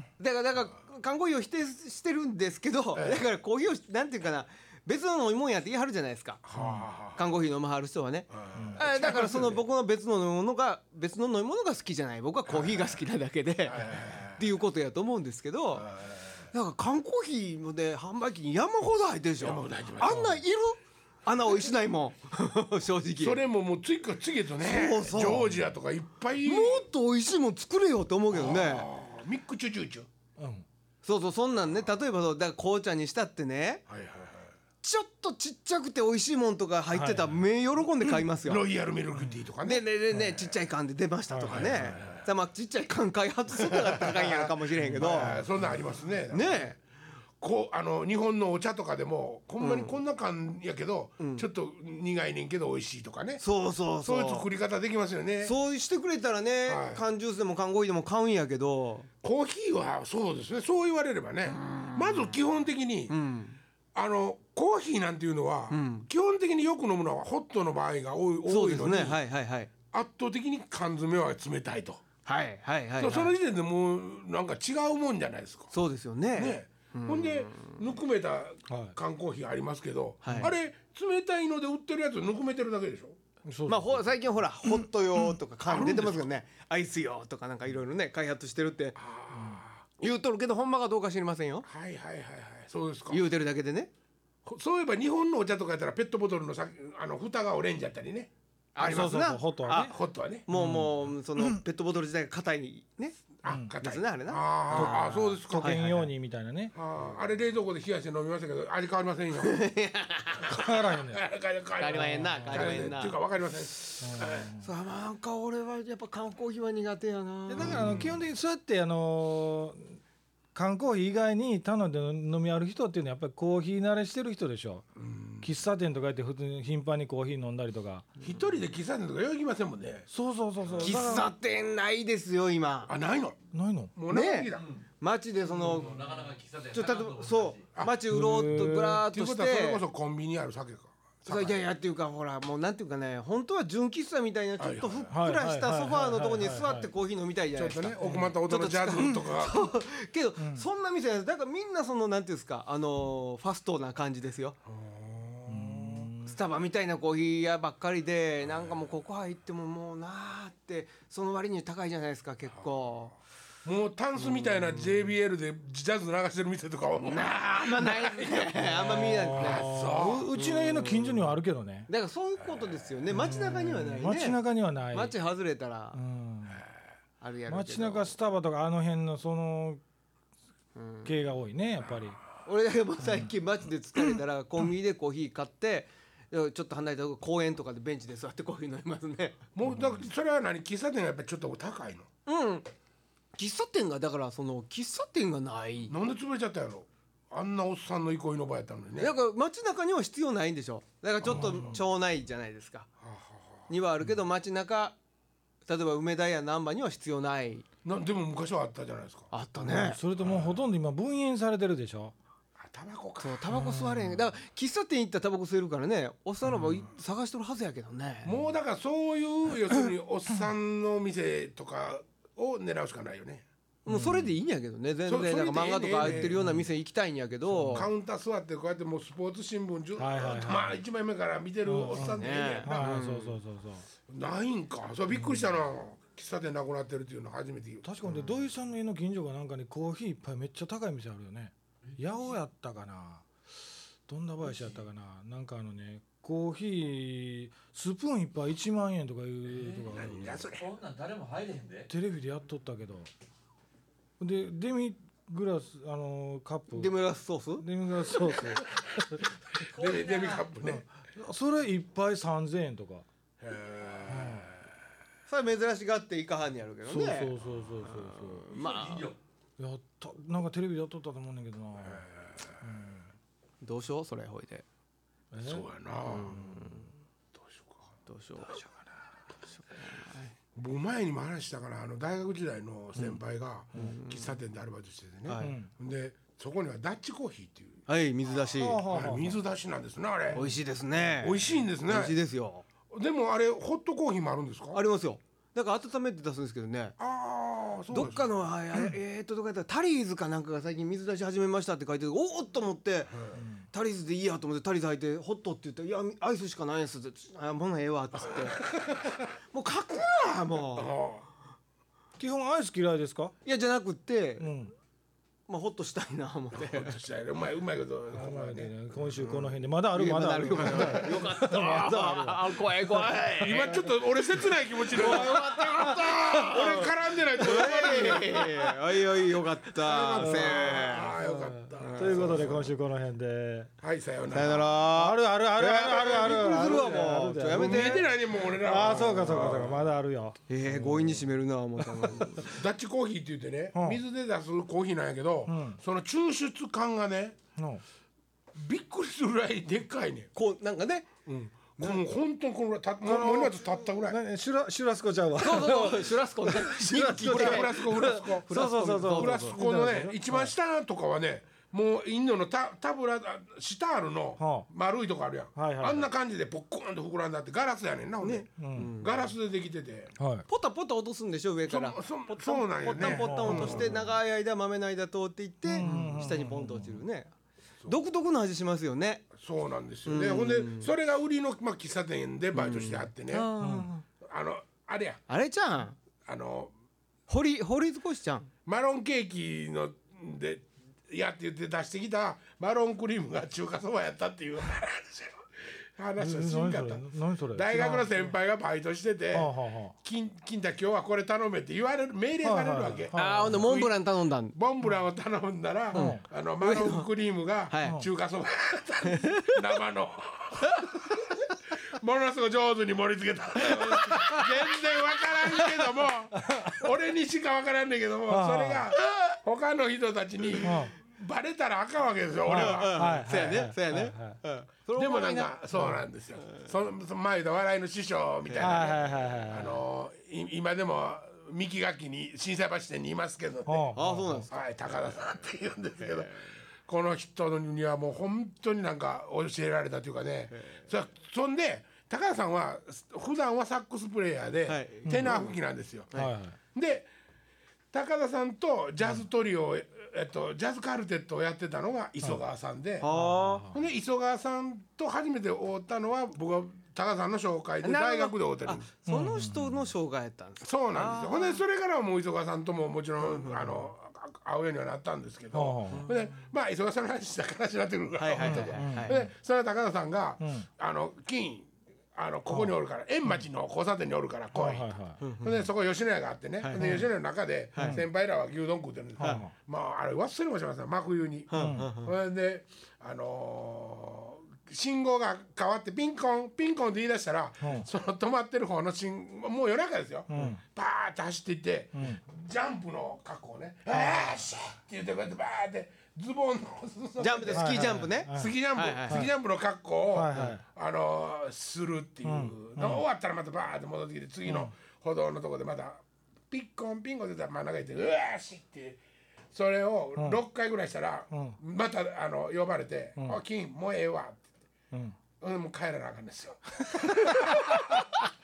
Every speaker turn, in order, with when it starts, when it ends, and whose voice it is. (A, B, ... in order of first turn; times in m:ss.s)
0:00.2-0:06.4 A
0:02.9-0:03.2 B
0:06.4-0:07.3 B
0:06.5-0:06.8 C
0:07.1-0:15.9 A
0:08.3-0:09.6 B
0:12.5-0:12.9 B
0:13.6-0:14.5 B
0:15.7-0:16.4 B
0:16.5-0:23.4 A
0:19.4-0:20.4 B
0:20.0-0:20.4 C
0:23.2-0:26.8 B
0:24.6-0:25.5 A
0:26.4-0:28.9 A
0:28.3-0:30.1 B
0:30.4-0:30.6 C
0:31.0-0:33.8 A
0:33.9-0:34.5 B
0:34.8-0:38.6 A
0:36.9-0:37.4 C
0:38.3-0:40.5 B
0:39.6-0:45.4 A
0:41.3-0:41.9 C
0:41.4-0:42.3 B
0:44.8-0:45.4 C
0:44.9-0:46.8 B
0:46.3-0:46.8 A
0:47.4-0:53.4 B
0:49.6-0:50.0 A
0:51.2-0:51.4 A
0:53.4-0:54.5 A
0:54.0-0:55.5 B
0:55.4-0:59.1 A
0:56.6-0:57.0 B
0:59.2-1:03.1 B
1:01.5-1:02.4 A
1:03.1-1:03.6 A
1:03.9-1:09.2 B
1:05.7-1:06.1 A
1:08.4-1:09.7 A
1:09.9-1:12.0 B
1:12.2-1:13.3 A
1:13.0-1:15.7 B
1:15.7-1:17.8 A
1:16.3-1:23.2 B
1:18.7-1:18.9 C
1:20.2-1:20.5 A
1:20.3-1:20.5 C
1:23.4-1:24.1 C
1:23.7-1:29.0 A
1:25.6-1:26.3 B
1:29.0-1:29.8 B
1:29.3-1:29.6 C
1:30.0-1:31.7 A
1:31.6-1:33.3 B
1:33.1-1:33.9 A
1:34.4-1:38.3 B
1:38.7-1:39.9 A
1:38.8-1:39.9 C
1:38.9-1:39.2 B
1:39.8-1:40.5 B
1:40.4-1:43.2 A
1:40.5-1:41.6 C
1:43.4-1:45.8 B
1:43.8-1:46.1 A
1:44.7-1:46.7 C
1:46.7-1:49.6 B
1:49.4-1:50.6 A
1:50.5-1:51.2 C
1:50.5-1:54.5 B
1:51.8-1:53.2 A
1:51.9-1:52.9 C
1:54.0-1:54.6 C
1:54.6-1:58.0 A
1:57.5-2:00.0 C
1:57.6-1:58.2 B
2:00.5-2:04.9 C
2:05.0-2:05.5 B
2:05.4-2:08.1 C
2:08.2-2:10.1 B
2:10.1-2:11.3 C
2:10.8-2:12.9 A
2:12.9-2:13.4 B
2:13.5-2:13.9 C
2:13.9-2:14.7 B
2:14.1-2:19.8 A
2:14.6-2:14.8 D
2:15.5-2:17.6 D
2:17.7-2:21.6 B
2:18.1-2:19.0 C
2:21.2-2:34.6 A
2:24.6-2:25.1 B
2:25.1-2:26.9 C
2:27.5-2:29.7 B
2:28.0-2:28.3 C
2:30.4-2:30.6 C
2:34.6-2:36.1 B
2:35.5-2:36.4 C
2:36.2-2:43.1 A
2:43.6-2:50.3 B
2:44.2-2:44.5 A
2:47.0-2:49.7 A
2:48.6-2:51.9 C
2:50.3-2:51.4 A
2:51.9-2:56.0 A
2:52.5-2:52.8 B
2:53.1-2:55.1 C
2:55.9-2:56.6 C
2:57.2-2:58.1 A
2:57.5-2:59.8 C
3:00.8-3:01.1 A
3:01.0-3:02.2 C
3:02.4-3:09.4 A
3:03.0-3:03.3 C
3:09.5-3:12.1 B
3:12.2-3:12.7 A
3:13.4-3:15.9 A
3:15.9-3:19.1 B
3:19.0-3:22.9 A
3:21.2-3:21.8 B
3:21.2-3:21.8 C
3:23.0-3:23.7 B
3:23.7-3:25.0 A
3:25.7-3:27.6 A
3:27.8-3:29.3 B
3:29.3-3:30.0 A
3:29.6-3:32.1 C
3:30.2-3:30.6 B
3:32.6-3:33.4 B
3:33.2-3:38.4 A
3:33.5-3:34.2 C
3:38.2-3:43.4 B
3:43.8-3:47.9 A
3:43.9-3:44.3 C
3:45.0-3:46.4 B
3:46.0-3:46.7 C
3:47.5-3:47.9 C
3:47.7-3:52.9 B
3:50.0-3:50.8 C
3:51.6-3:53.8 C
3:51.9-3:53.3 A
3:54.1-3:57.8 B
3:57.8-4:10.5 C
4:01.8-4:02.2 D
4:04.4-4:04.8 D
4:09.4-4:11.9 D
4:09.9-4:10.7 B
4:11.9-4:13.1 C
4:14.2-4:17.0 C
4:16.7-4:17.6 A
4:17.6-4:19.2 C
4:19.6-4:20.8 B
4:19.7-4:20.4 D
4:20.6-4:23.0 C
4:23.4-4:24.6 B
4:24.1-4:24.5 C
4:25.3-4:27.3 A
4:26.9-4:28.4 C
4:27.8-4:29.1 A
4:28.5-4:29.2 D
4:29.6-4:32.0 C
4:31.8-4:32.7 B
4:32.6-4:33.0 C
4:33.6-4:34.6 A
4:35.3-4:35.6 C
4:35.4-4:36.7 B
4:36.0-4:36.9 A
4:37.3-4:37.9 B
4:38.0-4:38.6 A
4:39.5-4:40.3 A
4:40.5-4:47.8 B
4:43.7-4:44.4 A
4:45.2-4:45.5 A
4:45.4-4:45.7 C
4:47.9-4:48.8 A
4:48.6-4:49.4 C
4:48.8-4:50.4 B
4:50.3-4:52.6 A
4:51.2-4:52.2 B
4:52.9-4:54.8 B
4:54.7-4:56.9 A
4:57.0-4:58.3 B
4:57.9-5:03.2 A
5:03.1-5:03.4 B
5:03.3-5:03.6 C
5:03.7-5:08.6 A
5:08.2-5:09.1 B
5:09.5-5:10.9 A
5:10.7-5:11.2 B
5:12.2-5:13.3 C
5:13.4-5:14.5 A
5:14.4-5:14.7 C
5:15.5-5:17.0 A
5:16.5-5:19.5 B
5:18.1-5:23.9 C
5:19.9-5:23.8 A
5:20.6-5:21.1 B
5:23.4-5:32.7 B
5:24.8-5:31.2 A
5:25.0-5:25.4 C
5:29.9-5:33.7 C
5:31.8-5:32.5 A
5:33.8-5:34.8 B
5:34.3-5:38.1 A
5:34.9-5:41.2 C
5:35.9-5:36.8 B
5:37.5-5:39.9 B
5:40.5-5:42.6 A
5:41.8-5:42.2 C
5:42.4-5:47.4 B
5:43.7-5:44.0 C
5:45.5-5:45.8 C
5:47.6-5:47.8 C
5:48.5-5:50.3 B
5:50.3-5:51.1 A
5:51.2-5:54.2 B
5:51.8-5:52.0 A
5:53.0-6:00.5 C
5:55.4-5:59.6 A
5:57.2-6:10.1 B
6:04.4-6:04.7 C
6:05.6-6:06.1 C
6:08.2-6:09.3 A
6:08.6-6:08.9 C
6:10.2-6:10.4 C
6:10.5-6:17.3 A
6:11.7-6:14.0 B
6:13.0-6:14.1 C
6:15.6-6:17.0 C
6:17.9-6:19.3 A
6:19.3-6:23.5 B
6:20.0-6:20.9 A
6:22.5-6:24.0 A
6:23.6-6:23.9 C
6:24.2-6:25.2 B
6:25.3-6:26.0 A
6:26.2-6:26.7 B
6:27.3-6:28.5 A
6:28.6-6:44.0 B
6:36.2-6:38.3 C
6:39.3-6:39.9 C
6:42.4-6:43.5 C
6:43.1-6:44.5 A
6:44.5-7:03.2 B
6:45.9-6:46.2 C
6:45.9-6:47.1 A
6:47.7-6:48.0 A
6:49.1-6:49.5 A
6:53.6-6:54.5 A
6:55.6-6:55.9 A
6:58.3-6:58.9 C
7:00.6-7:00.9 C
7:02.4-7:04.4 C
7:02.5-7:05.5 A
7:05.0-7:13.9 B
7:08.5-7:08.8 A
7:08.6-7:09.8 C
7:13.7-7:14.5 C
7:13.9-7:14.5 A
7:14.5-7:26.1 B
7:16.2-7:16.5 A
7:20.5-7:20.8 A
7:24.6-7:25.6 A
7:25.1-7:25.3 C
7:26.1-7:26.6 C
7:26.7-7:27.1 B
7:27.9-7:33.1 B
7:33.0-7:33.7 A
7:33.1-7:33.8 C
7:33.7-7:38.9 B
7:37.8-7:41.6 A
7:39.1-7:39.9 C
7:40.6-8:29.0 B
7:43.2-7:43.8 A
7:45.5-7:46.0 C
7:48.2-7:49.3 A
7:48.4-7:49.2 C
7:52.5-7:52.7 C
7:54.5-7:55.2 C
7:55.2-7:55.7 A
7:56.6-7:57.1 A
7:56.8-7:57.1 C
7:57.7-7:58.0 A
7:57.8-7:58.0 C
7:59.2-7:59.5 C
7:59.2-7:59.4 A
8:01.5-8:02.1 A
8:01.5-8:01.9 C
8:07.6-8:07.9 C
8:10.3-8:10.6 C
8:13.9-8:14.4 C
8:17.2-8:19.3 A
8:17.5-8:19.3 C
8:20.1-8:20.6 C
8:22.2-8:23.0 C
8:24.4-8:24.7 C
8:29.5-8:34.4 B
8:31.3-8:31.6 C
8:34.9-8:35.2 C
8:35.4-8:38.0 B